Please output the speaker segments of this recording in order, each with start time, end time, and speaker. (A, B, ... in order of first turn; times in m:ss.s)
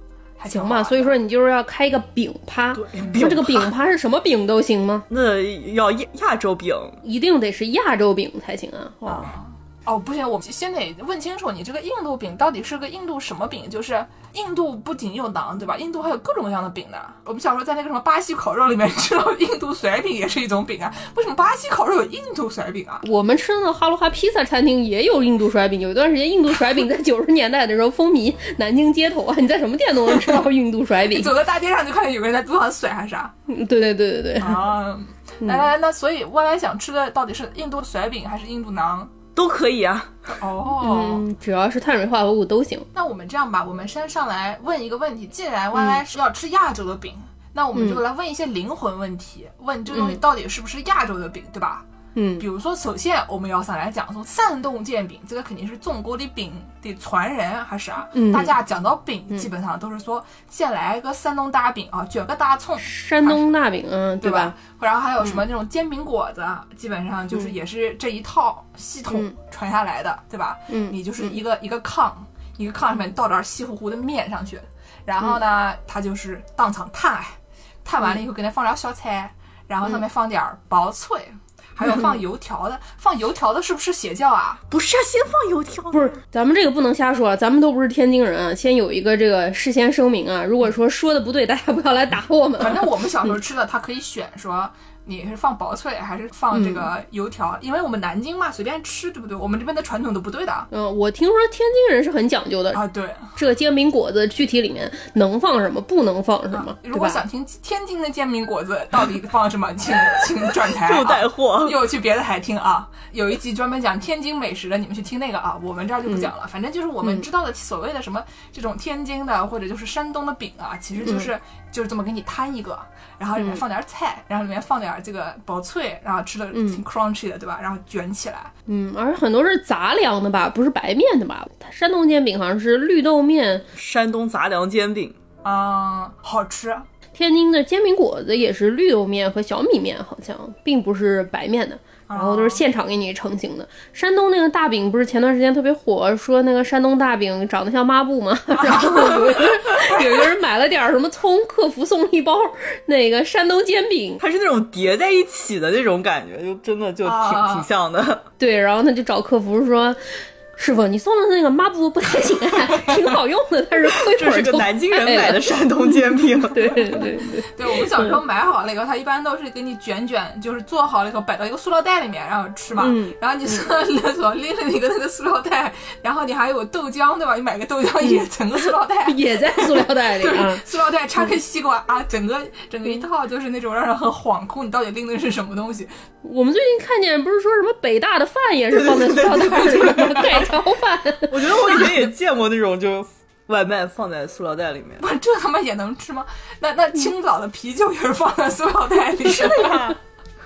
0:00.4-0:01.2 A
0:00.5-0:05.1 B
0:02.8-0:03.7 C
0:03.0-0:03.4 A
0:05.1-0:07.0 C
0:07.0-0:09.3 B
0:09.1-0:23.0 A
0:23.0-0:31.3 B
0:31.1-0:33.3 A
0:33.5-0:34.6 B
0:34.4-0:39.1 A
0:39.4-0:40.3 C
0:40.3-0:41.2 A
0:40.8-0:42.9 B
0:42.9-0:51.8 A
0:47.8-0:48.0 B
0:49.9-0:50.2 B
0:52.2-0:52.4 B
0:52.4-1:03.5 A
0:58.2-0:58.5 B
1:02.8-1:04.5 B
1:04.2-1:24.6 A
1:10.7-1:11.3 B
1:24.7-1:26.1 C
1:25.9-1:33.3 B
1:32.6-1:40.7 A
1:36.5-1:36.9 B
1:40.7-1:42.8 B
1:42.7-1:43.3 A
1:43.4-1:47.2 B
1:46.5-2:08.5 A
1:50.7-1:51.9 C
2:01.0-2:01.3 B
2:06.5-2:06.8 B
2:08.7-2:13.7 B
2:13.8-2:15.2 C
2:15.4-2:16.9 A
2:17.2-2:34.2 B
2:22.1-2:22.6 A
2:28.6-2:30.3 A
2:34.2-2:38.2 C
2:37.0-2:37.7 A
2:38.4-2:48.2 B
2:42.3-2:43.2 A
2:43.8-2:47.1 C
2:45.1-2:45.4 A
2:47.3-3:05.9 A
2:52.8-2:53.2 B
2:59.0-3:00.6 B
3:06.2-3:11.8 B
3:08.7-3:10.4 C
3:09.4-3:10.5 A
3:11.3-3:15.0 C
3:15.0-3:20.0 A
3:19.5-3:19.9 B